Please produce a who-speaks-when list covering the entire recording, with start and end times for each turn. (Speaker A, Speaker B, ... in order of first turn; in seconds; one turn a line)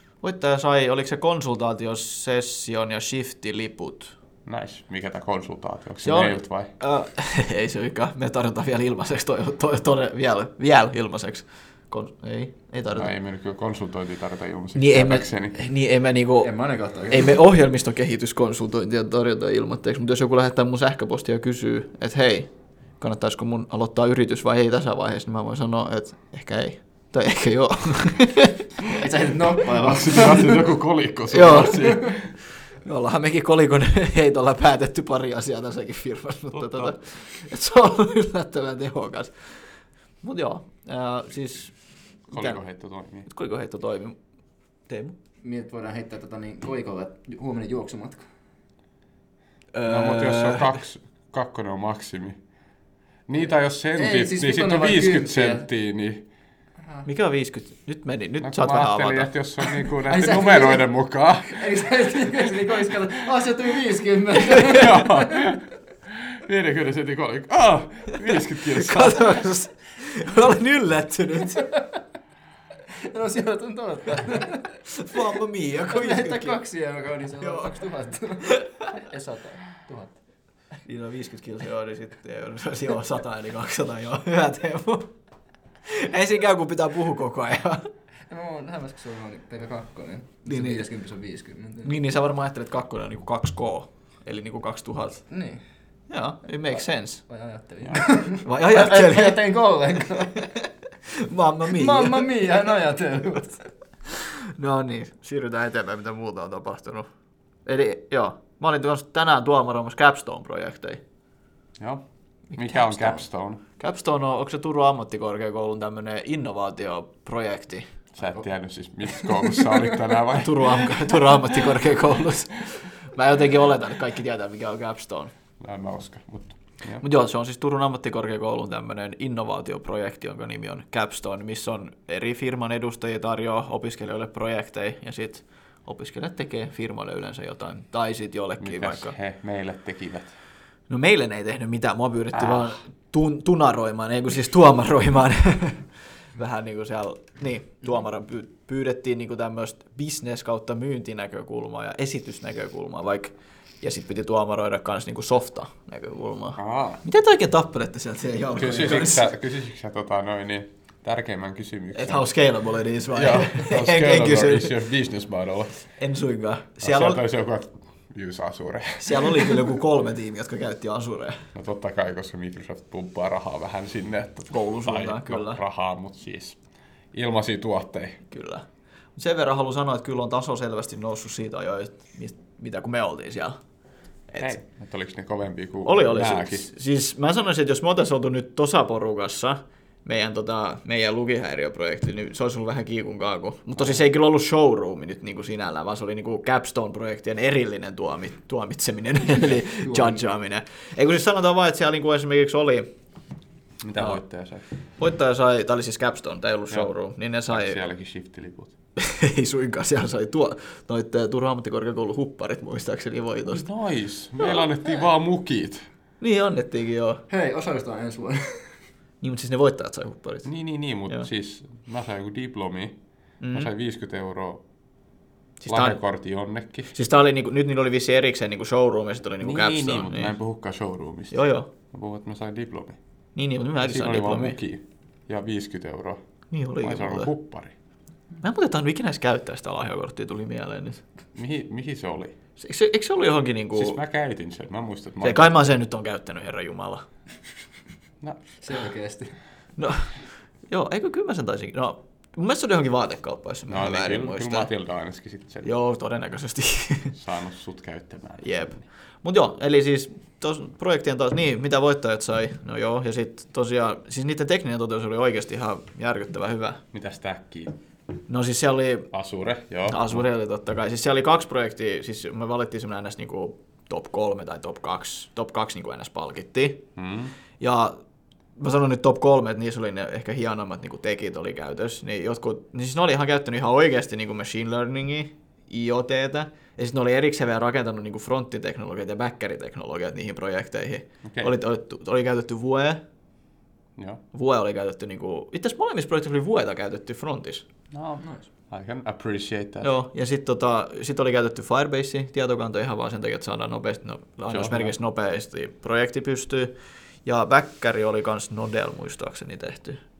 Speaker A: 0.2-4.1
Speaker B: 4.5-6.7
Speaker A: 6.0-13.1
Speaker B: 12.9-15.6
Speaker A: 14.8-16.5
Speaker C: 16.4-17.3
Speaker A: 17.1-28.6
Speaker C: 28.9-30.6
Speaker B: 29.7-32.4
Speaker A: 31.3-32.1
Speaker A: 32.8-39.6
Speaker B: 36.5-37.0
Speaker A: 40.2-41.7
Speaker B: 42.3-43.3
Speaker A: 42.3-42.6
Speaker A: 43.3-44.2
Speaker A: 44.9-45.2
Speaker C: 45.4-48.2
Speaker A: 49.7-50.8
Speaker B: 49.9-52.4
Speaker B: 53.3-56.2
Speaker C: 54.0-55.7
Speaker A: 57.1-59.3
Speaker B: 58.4-63.1
Speaker C: 60.1-60.9
Speaker C: 61.5-65.4
Speaker B: 64.6-69.4
Speaker A: 68.6-71.7
Speaker C: 71.7-72.0
Speaker C: 72.9-74.7
Speaker A: 74.9-76.6
Speaker C: 75.9-80.2
Speaker A: 77.4-77.8
Speaker A: 78.5-78.7
Speaker A: 80.8-85.1
Speaker A: 85.9-87.9
Speaker C: 88.3-92.0
Speaker A: 90.5-90.9
Speaker A: 91.8-95.2
Speaker C: 95.3-95.6
Speaker A: 96.1-97.2
Speaker C: 97.3-100.4
Speaker A: 98.4-99.4
Speaker A: 100.4-102.3
Speaker C: 101.7-103.6
Speaker A: 104.1-107.1
Speaker A: 107.7-111.0
Speaker B: 111.8-113.6
Speaker A: 112.6-113.2
Speaker A: 113.8-117.9
Speaker B: 118.1-121.8
Speaker A: 120.4-125.3
Speaker B: 125.6-127.0
Speaker A: 127.0-139.1
Speaker B: 138.6-140.4
Speaker A: 140.9-159.2
Speaker B: 142.4-142.8
Speaker B: 156.6-157.0
Speaker B: 158.6-162.3
Speaker A: 161.9-164.7
Speaker B: 163.1-165.8
Speaker A: 166.0-167.2
Speaker B: 166.8-169.7
Speaker A: 169.0-171.4
Speaker B: 171.6-176.6
Speaker A: 174.5-175.6
Speaker B: 177.1-178.2
Speaker A: 178.3-178.7
Speaker A: 179.2-183.6
Speaker A: 184.3-184.6
Speaker B: 184.4-186.7
Speaker A: 185.8-202.9
Speaker C: 199.8-200.2
Speaker B: 203.8-204.6
Speaker A: 205.0-207.8
Speaker B: 207.5-208.8
Speaker A: 209.0-213.7
Speaker B: 213.5-215.9
Speaker A: 216.2-217.2
Speaker C: 217.3-218.7
Speaker A: 219.2-220.5
Speaker B: 220.4-222.9
Speaker A: 223.4-223.7
Speaker B: 223.5-224.6
Speaker A: 225.6-226.0
Speaker B: 225.7-226.9
Speaker A: 226.9-230.3
Speaker B: 229.4-233.0
Speaker A: 231.3-231.7
Speaker A: 233.4-234.6
Speaker B: 233.8-236.2
Speaker A: 236.5-237.3
Speaker B: 236.8-237.7
Speaker A: 238.4-241.0
Speaker B: 241.3-242.3
Speaker A: 242.6-244.0
Speaker B: 243.8-245.7
Speaker A: 245.2-247.0
Speaker B: 248.2-248.6
Speaker C: 248.6-249.4
Speaker A: 249.8-250.1
Speaker A: 250.7-254.7
Speaker B: 253.7-255.7
Speaker A: 255.6-257.1
Speaker B: 257.1-258.6
Speaker A: 258.4-266.8
Speaker B: 266.9-267.8
Speaker A: 268.3-269.1
Speaker B: 269.1-270.2
Speaker A: 269.9-276.8
Speaker B: 277.0-277.4
Speaker A: 277.6-278.0
Speaker A: 278.6-293.0
Speaker B: 291.2-291.5
Speaker B: 294.0-294.2
Speaker A: 294.3-297.7
Speaker B: 297.9-299.9
Speaker C: 298.2-298.5
Speaker A: 299.8-306.7
Speaker B: 304.5-304.9
Speaker A: 307.2-310.0